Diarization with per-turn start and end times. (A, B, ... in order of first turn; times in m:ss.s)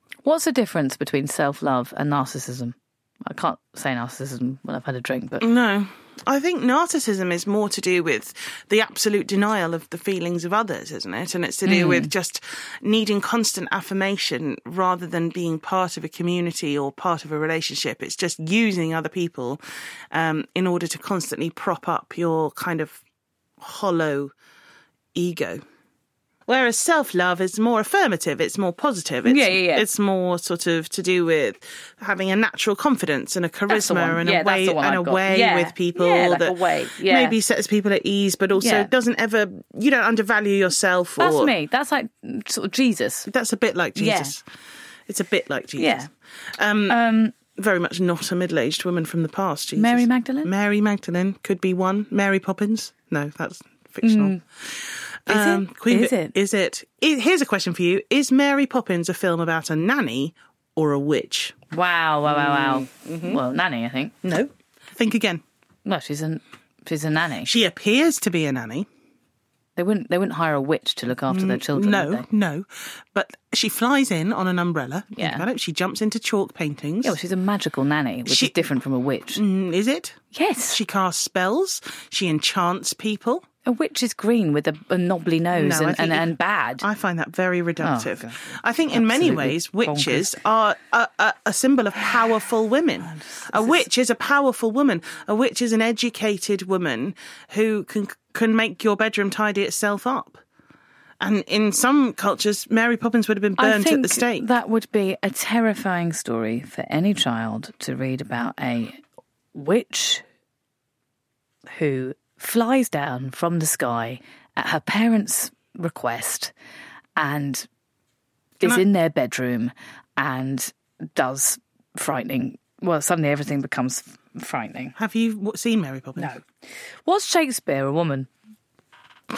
0:00.2-0:05.5 A
0:05.4-0:19.6 B
0:11.6-0:12.1 A
0:20.1-0:23.0 B
0:23.6-0:24.3 B
0:25.1-0:25.6 B
0:26.5-0:41.5 B
0:29.2-0:29.9 A
0:33.7-0:37.4 A
0:38.6-0:38.9 A
0:41.2-0:43.3 A
0:43.3-0:44.4 B
0:44.0-0:44.3 A
0:45.1-0:47.0 B
0:45.8-0:46.1 A
0:46.9-0:47.3 A
0:47.5-1:01.5 B
0:49.8-0:50.5 A
0:54.0-0:54.4 A
0:55.3-0:56.3 A
1:01.7-1:04.2 A
1:02.2-1:03.4 B
1:04.2-1:05.4 B
1:05.8-1:07.5 A
1:07.4-1:08.9 B
1:09.8-1:12.2 A
1:11.3-1:17.2 B
1:15.1-1:15.4 A
1:17.0-1:19.4 A
1:18.2-1:18.6 B
1:19.3-1:20.2 B
1:20.3-1:20.8 A
1:20.7-1:23.4 B
1:23.6-1:26.8 A
1:25.5-1:26.3 B
1:26.8-1:40.4 B
1:27.8-1:28.4 A
1:28.9-1:30.4 A
1:33.1-1:33.8 A
1:41.2-1:44.4 B
1:43.6-1:49.0 A
1:49.5-1:50.2 A
1:51.7-1:56.5 A
1:57.2-1:57.7 A
1:58.6-2:04.9 A
2:05.0-2:06.3 B
2:06.2-2:06.4 A
2:07.0-2:08.3 A